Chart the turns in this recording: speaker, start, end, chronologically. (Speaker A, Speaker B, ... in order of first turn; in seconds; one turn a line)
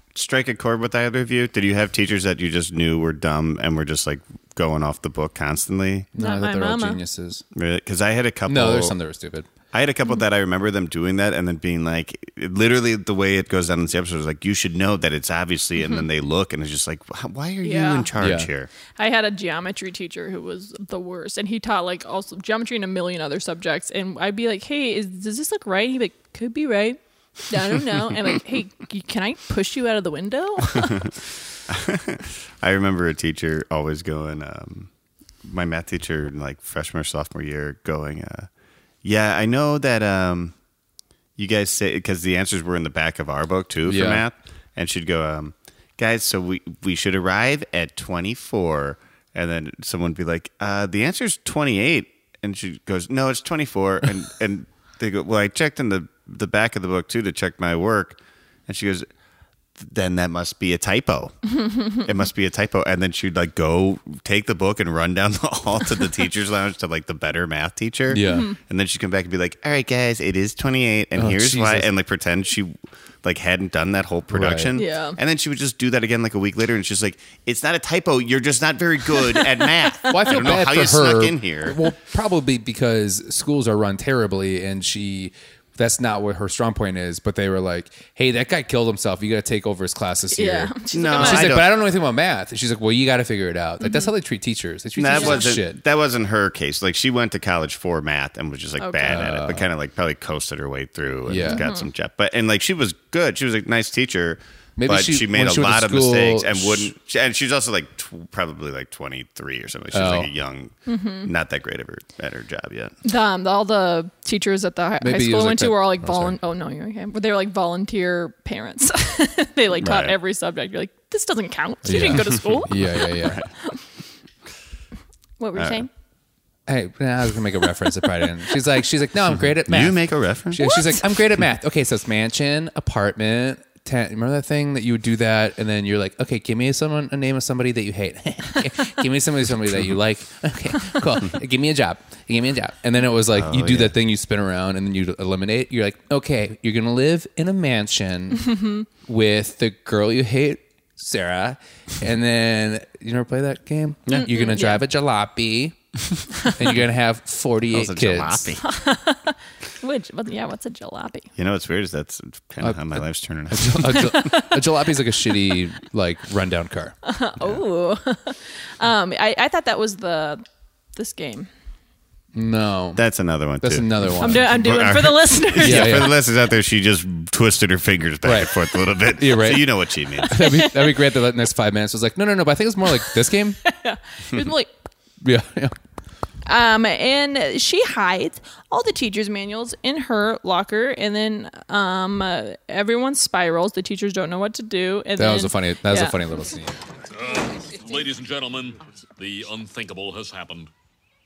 Speaker A: 0.1-6.1
Speaker B: 6.2-7.4
Speaker C: 6.2-7.0
Speaker A: 7.5-9.0
Speaker B: 8.5-9.5
Speaker A: 9.7-18.7
Speaker C: 15.8-16.1
Speaker C: 17.6-18.1
Speaker B: 18.2-18.5
Speaker C: 19.0-31.1
Speaker A: 31.7-34.9
Speaker A: 35.4-38.5
Speaker A: 39.0-40.5
Speaker A: 41.4-59.1
Speaker B: 43.9-44.2
Speaker A: 59.8-61.4
Speaker C: 61.7-62.0
Speaker A: 62.0-81.8
Speaker B: 68.1-68.5
Speaker C: 68.3-68.6
Speaker B: 71.2-71.9
Speaker B: 74.3-74.8
Speaker C: 74.8-75.2
Speaker B: 80.1-95.8
Speaker C: 90.3-91.6
Speaker A: 90.9-91.8
Speaker C: 93.8-94.1
Speaker A: 95.0-113.0
Speaker C: 95.0-95.5
Speaker C: 98.8-99.3
Speaker B: 99.1-99.7
Speaker B: 101.3-101.7
Speaker C: 101.4-101.9
Speaker B: 104.8-106.9
Speaker B: 109.9-110.3
Speaker C: 110.9-111.3
Speaker C: 113.0-123.8
Speaker B: 115.0-116.4
Speaker A: 119.8-120.2
Speaker B: 121.8-123.4
Speaker A: 122.1-123.5
Speaker C: 125.4-125.9
Speaker A: 125.6-125.8
Speaker B: 126.7-155.8
Speaker A: 129.6-130.7
Speaker C: 130.6-131.0
Speaker A: 143.3-143.9
Speaker C: 154.1-154.8
Speaker B: 156.5-158.5
Speaker A: 157.7-158.7
Speaker C: 158.6-161.3
Speaker A: 161.4-164.2
Speaker B: 162.6-167.0
Speaker C: 164.0-164.6
Speaker C: 167.1-170.4
Speaker C: 171.0-171.5
Speaker B: 172.3-173.0
Speaker A: 173.0-180.4
Speaker B: 173.6-174.5
Speaker C: 174.2-176.2
Speaker B: 175.6-176.1
Speaker B: 178.2-179.7
Speaker B: 180.3-183.6
Speaker C: 180.3-181.1
Speaker C: 183.7-184.7
Speaker B: 185.2-185.8
Speaker C: 186.5-196.2
Speaker B: 195.2-196.8
Speaker D: 197.1-200.7